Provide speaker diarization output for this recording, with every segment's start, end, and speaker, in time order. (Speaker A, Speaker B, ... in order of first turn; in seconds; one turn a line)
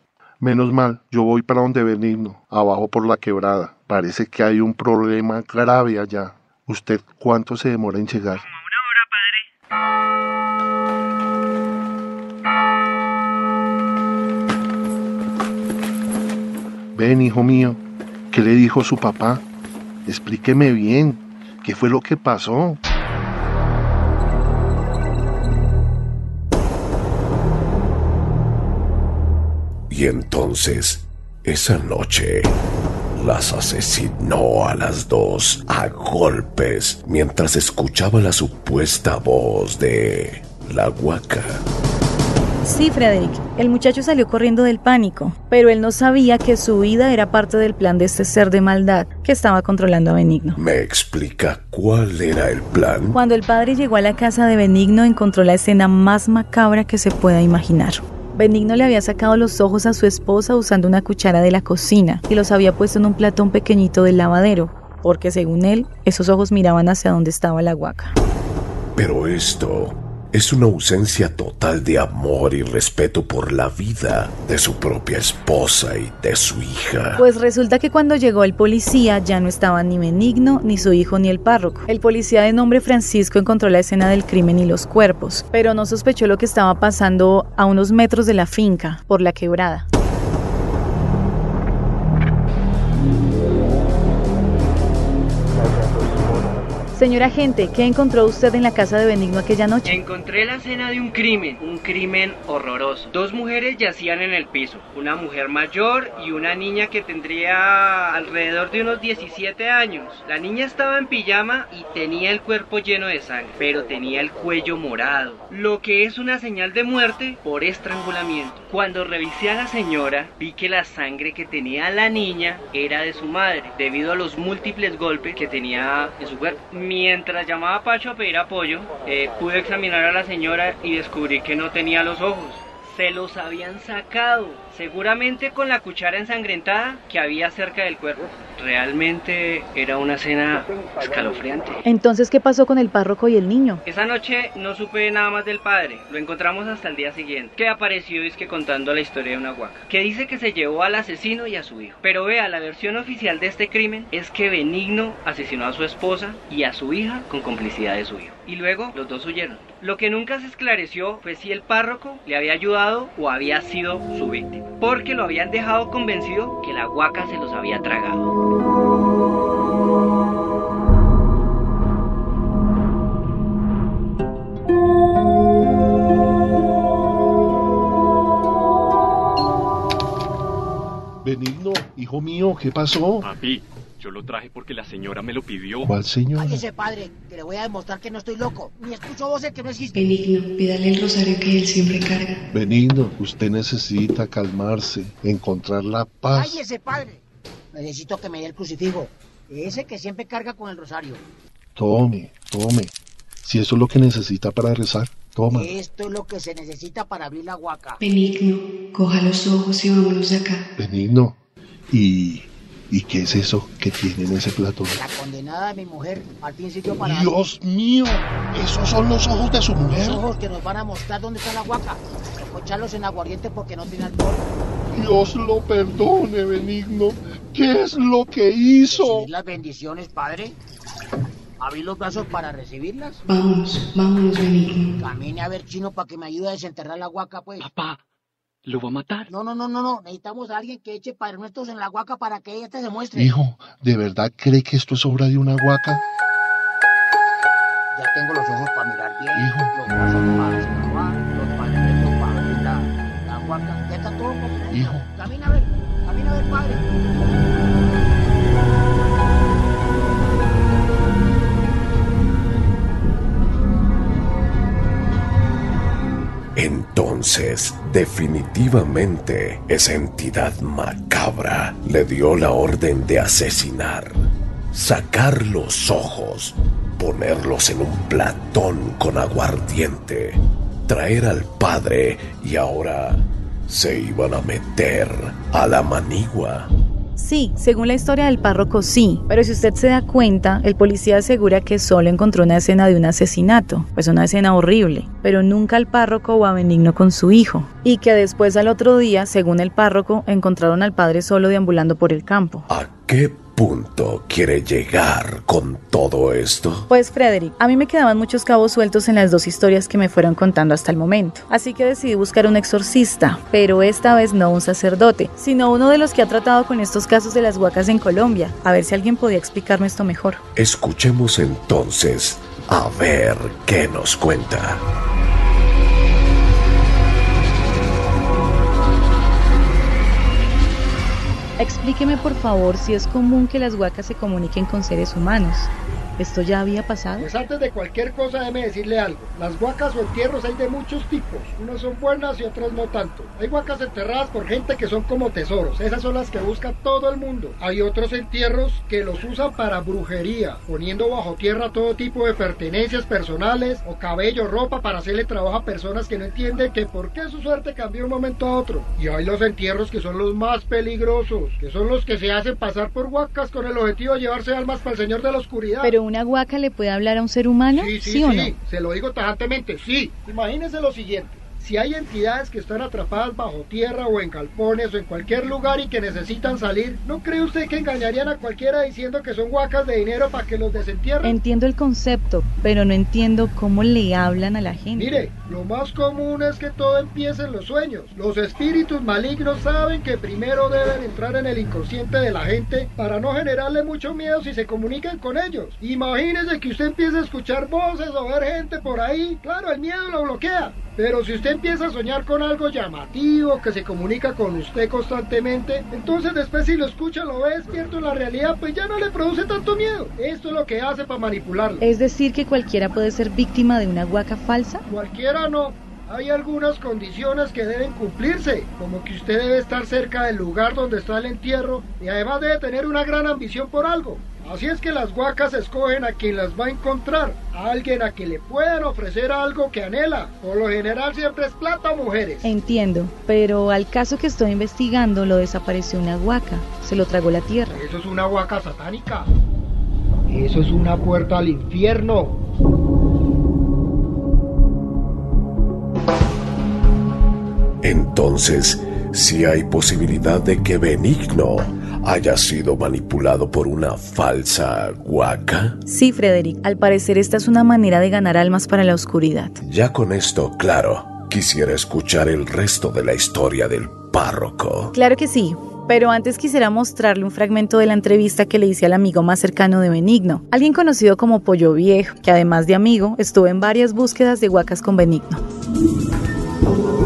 Speaker A: 0.4-8.5
Speaker A: 16.9-19.4
Speaker A: 20.1-22.8
Speaker B: 29.9-32.5
Speaker B: 33.2-41.6
Speaker C: 42.6-50.6
Speaker B: 50.6-53.2
Speaker C: 53.1-68.1
Speaker B: 69.0-77.2
Speaker C: 77.2-89.9
Speaker C: 96.9-100.0
Speaker D: 99.8-141.8
Speaker C: 141.8-143.8
Speaker D: 143.8-168.3
Speaker A: 181.2-183.3
Speaker E: 183.2-185.9
Speaker A: 185.8-186.6
Speaker F: 186.4-190.0
Speaker G: 189.9-192.4
Speaker A: 192.5-196.6
Speaker F: 196.3-201.2
Speaker A: 201.8-205.8
Speaker F: 205.5-208.0
Speaker G: 208.0-210.6
Speaker A: 210.8-211.4
Speaker A: 211.9-215.0
Speaker F: 214.9-217.3
Speaker A: 217.0-220.2
Speaker F: 219.9-224.5
Speaker A: 224.9-229.3
Speaker F: 228.9-230.6
Speaker F: 231.6-233.2
Speaker G: 233.3-234.9
Speaker F: 235.0-237.7
Speaker E: 237.6-238.0
Speaker E: 238.7-239.3
Speaker F: 239.3-243.3
Speaker A: 243.2-246.0
Speaker F: 247.9-256.9
Speaker A: 249.3-249.8
Speaker A: 254.7-255.1
Speaker B: 266.6-286.7
Speaker C: 287.2-302.7
Speaker B: 302.7-306.9
Speaker C: 306.9-320.4
Speaker B: 320.6-324.8
Speaker C: 331.6-337.3
Speaker H: 337.2-365.9
Speaker C: 365.8-368.5
Speaker H: 367.7-381.4
Speaker C: 381.2-385.2
Speaker H: 384.9-411.8
Speaker C: 411.8-414.8
Speaker H: 414.9-432.5
Speaker C: 432.4-437.8
Speaker H: 437.7-439.3
Speaker H: 440.3-442.4
Speaker B: 447.8-455.8
Speaker C: 455.9-459.6
Speaker B: 459.6-464.9
Speaker C: 464.9-475.4